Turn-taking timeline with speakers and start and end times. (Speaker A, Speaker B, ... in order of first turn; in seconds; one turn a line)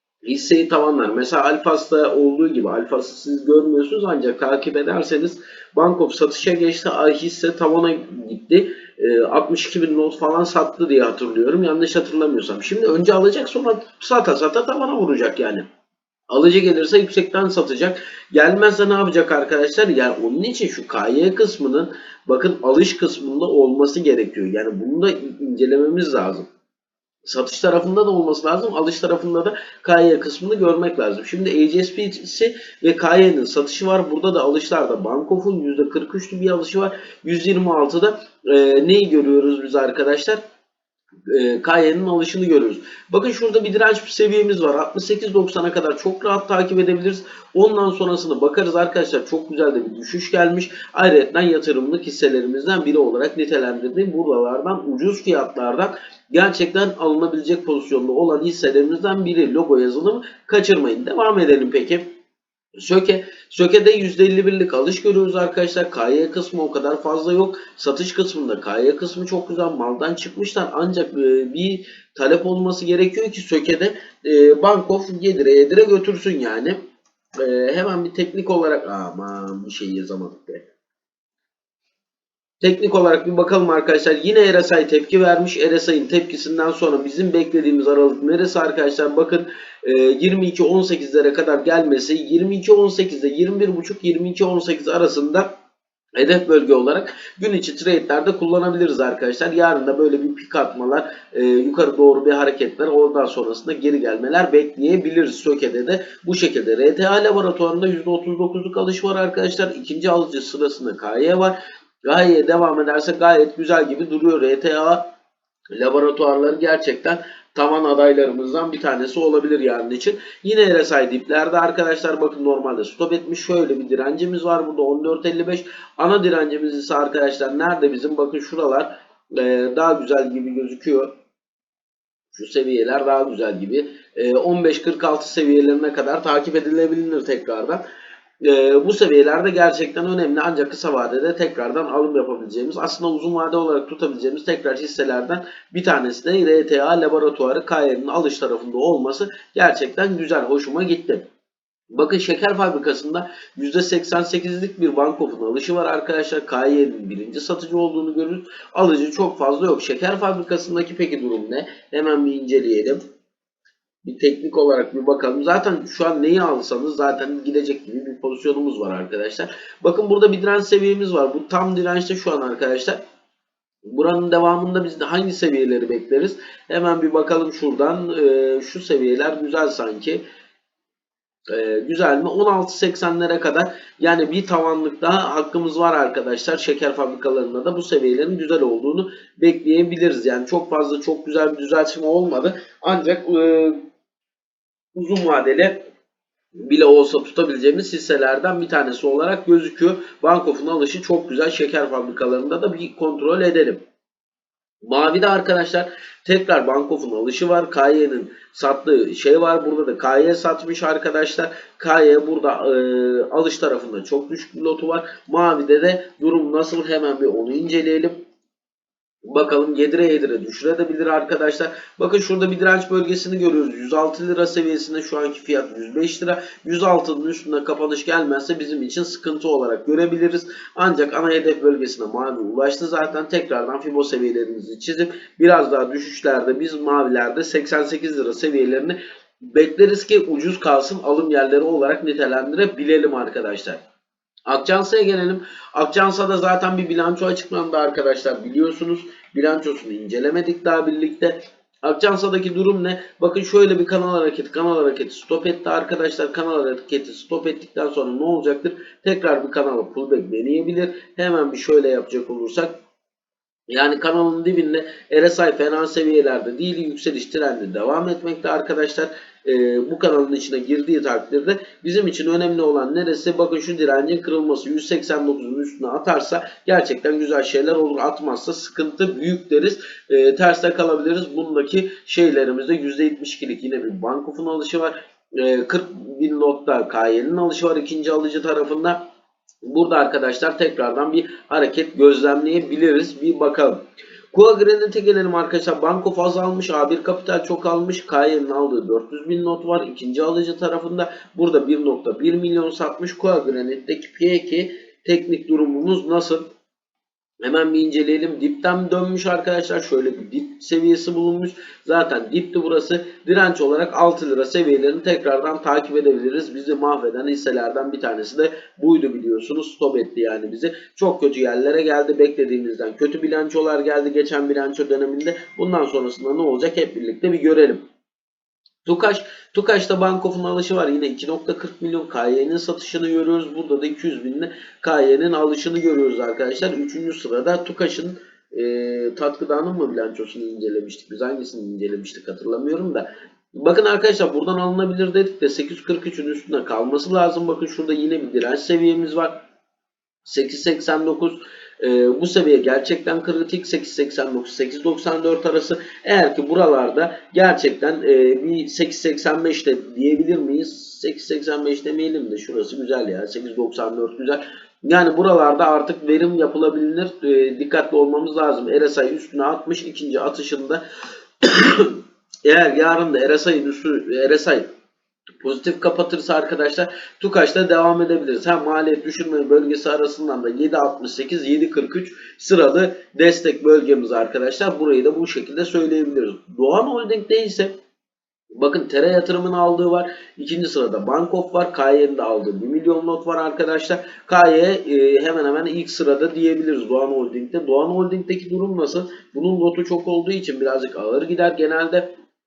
Speaker A: 0.2-15.7
Speaker A: 16.3-26.5
Speaker A: 27.2-40.4
Speaker A: 41.3-62.0
Speaker A: 62.8-76.8
Speaker A: 77.4-80.7
Speaker A: 82.6-95.5
Speaker A: 96.2-115.0
Speaker A: 115.7-131.1
Speaker A: 132.3-137.8
Speaker A: 138.4-151.2
Speaker A: 151.9-163.0
Speaker A: 164.0-173.0
Speaker A: 173.9-180.2
Speaker A: 181.5-193.8
Speaker A: 194.9-195.8
Speaker A: 196.6-203.8
Speaker A: 204.8-218.2
Speaker A: 219.2-243.8
Speaker A: 244.5-262.7
Speaker A: 263.7-289.0
Speaker A: 289.6-293.8
Speaker A: 294.3-306.4
Speaker A: 307.4-327.8
Speaker A: 328.9-349.4
Speaker A: 350.2-370.8
Speaker A: 371.4-374.7
Speaker A: 375.4-387.7
Speaker A: 388.6-402.1